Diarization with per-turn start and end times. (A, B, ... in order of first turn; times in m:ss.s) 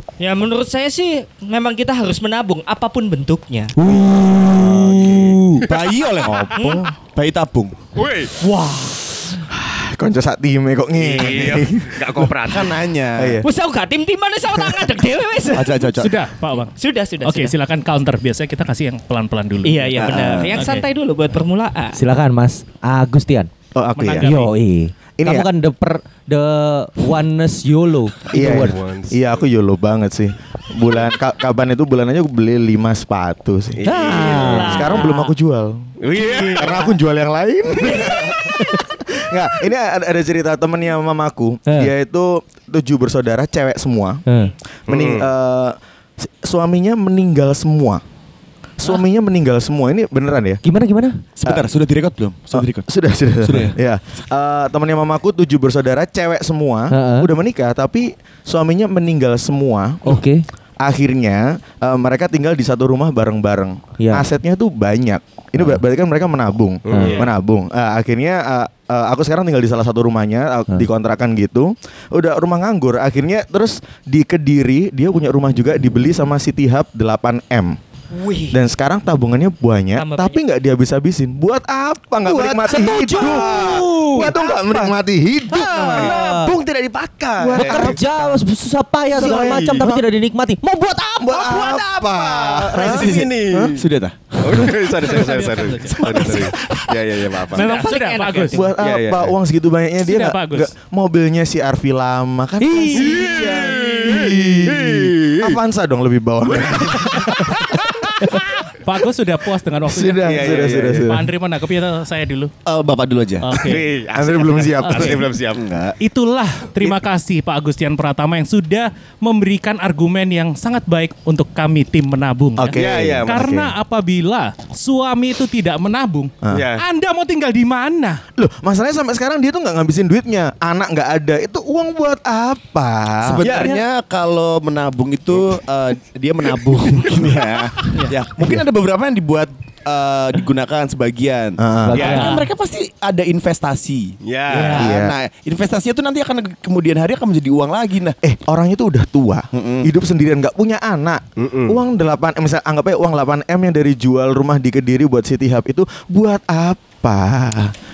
0:00.2-0:03.7 A
0:03.8-0:05.0 B
0:04.4-0:06.5 C
0:04.5-0:05.8 D
0:06.3-0:06.9 E
0:07.1-0:07.8 C
0:08.0-0:08.4 D
0:08.4-0:09.0 A
0:09.5-0:12.3 E
0:11.0-0:12.8 D
0:12.4-0:13.4 C
0:13.2-0:13.4 E
0:13.4-0:15.7 A
0:15.5-0:16.2 C
0:16.0-0:20.8 F
0:16.8-0:17.5 A
0:19.6-0:22.0 A
0:20.0-0:20.6 C
0:22.0-0:23.5 B
0:23.8-0:24.3 E
0:24.0-0:24.5 F
0:24.2-0:28.8 B
0:25.2-0:25.5 E
0:28.3-0:35.9 E
0:28.5-0:29.3 D
0:33.8-0:34.7 D
0:33.8-0:35.0 B
0:34.1-0:35.3 A
0:36.0-0:36.8 D
0:36.1-0:36.9 A
0:36.5-0:38.6 E
0:37.9-0:38.2 A
0:39.1-0:44.2 E
0:44.3-0:44.5 B
0:44.9-0:45.3 D
0:44.9-0:48.0 E
0:48.8-0:50.6 E
0:50.6-0:51.2 B
0:51.4-0:52.9 C
0:52.5-1:00.2 E
0:53.4-0:53.8 C
0:56.9-0:57.3 B
1:00.0-1:00.5 B
1:00.8-1:17.8 E
1:04.0-1:04.3 B
1:06.9-1:07.3 D
1:06.9-1:07.2 B
1:18.1-1:18.6 A
1:18.5-1:26.2 E
1:20.0-1:20.4 A
1:22.2-1:24.6 D
1:22.6-1:24.4 B
1:25.6-1:26.6 B
1:25.6-1:28.0 D
1:27.4-1:28.0 E
1:27.4-1:31.5 B
1:29.1-1:30.0 E
1:29.2-1:29.9 D
1:31.2-1:33.8 E
1:31.4-1:33.8 D
1:32.8-1:36.7 C
1:34.4-1:37.7 D
1:35.2-1:36.2 A
1:37.5-1:38.7 A
1:37.5-1:38.6 F
1:38.5-1:47.7 E
1:38.8-1:39.3 D
1:40.0-1:40.7 F
1:42.6-1:43.4 B
1:42.9-1:45.6 D
1:48.7-1:52.5 F
1:49.9-1:51.3 E
1:50.2-1:51.1 D
1:52.7-1:53.6 C
1:53.5-1:53.9 F
1:53.6-1:55.6 D
1:54.1-1:55.2 E
1:54.8-1:55.2 F
1:55.6-1:55.9 C
1:56.0-2:08.2 F
2:02.6-2:03.7 E
2:02.7-2:03.4 D
2:06.5-2:06.8 D
2:08.4-2:13.7 E
2:13.2-2:28.2 C
2:13.4-2:13.8 D
2:21.6-2:22.2 E
2:21.9-2:22.5 B
2:24.2-2:24.9 D
2:24.5-2:24.8 A
2:24.8-2:25.2 E
2:28.2-2:37.7 E
2:29.5-2:29.9 C
2:31.4-2:31.8 D